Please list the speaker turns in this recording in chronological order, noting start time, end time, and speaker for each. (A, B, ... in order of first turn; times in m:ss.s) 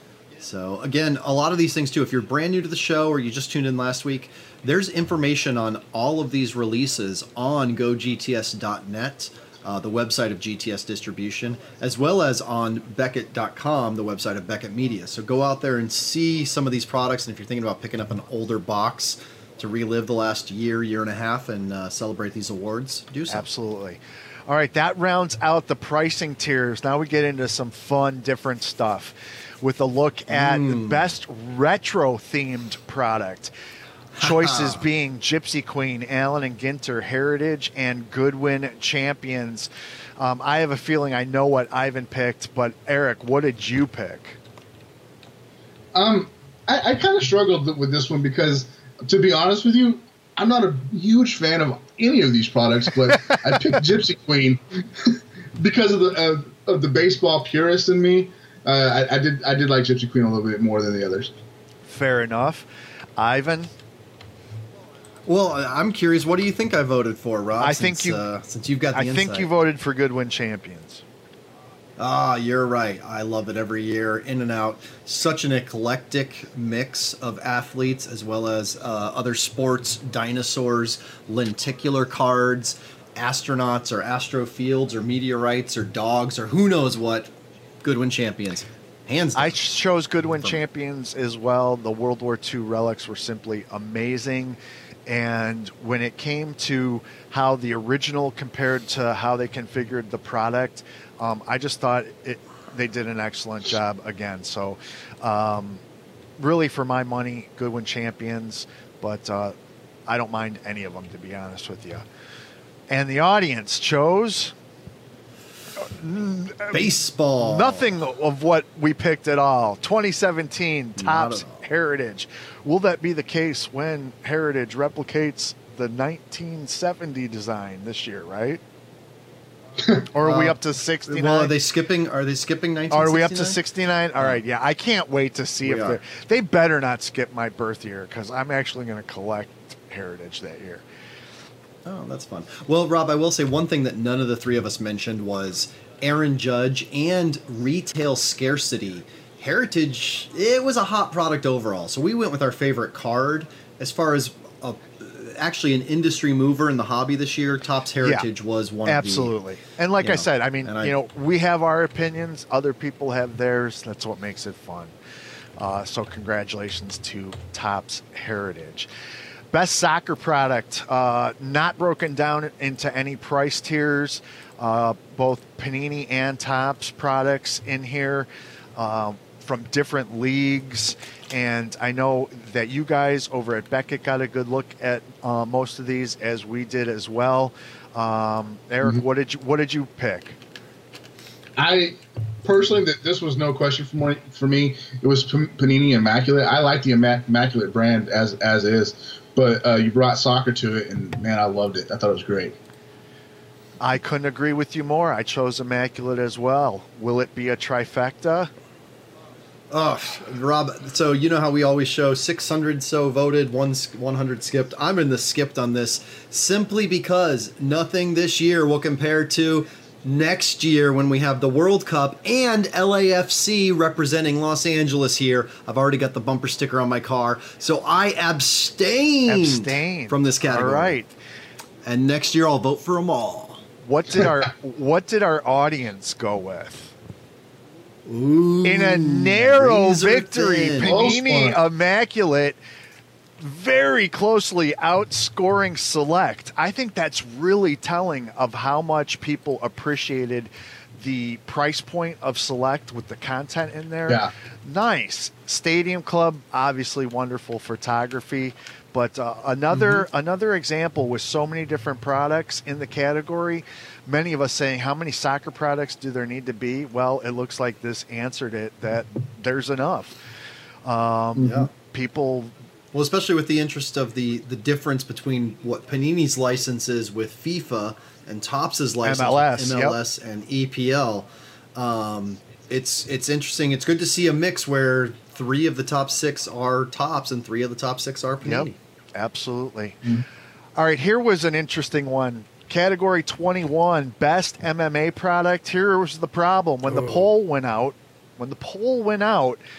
0:00.4-0:23.5 A
0:23.3-0:33.5 B
0:30.3-0:31.0 A
0:34.2-0:34.8 A
0:34.2-0:44.4 B
0:45.9-1:01.3 C
1:01.9-1:03.7 B
1:05.3-1:09.5 A
1:07.6-1:08.2 B
1:08.9-1:11.0 B
1:12.0-1:27.3 A
1:27.8-1:29.6 A
1:29.4-1:45.8 B
1:46.4-1:49.5 B
1:50.1-1:52.0 B
1:52.9-1:54.5 B
1:55.8-2:08.6 B
1:56.7-1:57.9 A
2:01.0-2:01.6 A
2:10.1-2:11.5 B
2:10.2-2:13.6 A
2:12.9-2:20.8 B
2:15.6-2:16.0 A
2:21.8-2:39.3 A
2:38.0-2:38.3 B
2:38.8-2:44.9 B
2:40.0-2:40.9 A
2:45.6-2:48.9 B
2:49.5-3:10.4 B
3:11.6-3:22.6 C
3:23.8-3:28.5 B
3:29.7-3:50.9 A
3:49.3-3:51.1 B
3:51.8-3:53.6 A
3:53.8-3:56.9 B
3:58.0-4:01.2 A
3:58.6-4:02.6 B
4:00.8-4:01.6 C
4:03.4-4:30.2 B
4:30.8-4:32.5 B
4:31.4-4:31.7 A
4:32.9-4:48.8 A
4:39.0-4:40.0 B
4:48.4-4:50.1 B
4:50.8-4:59.6 B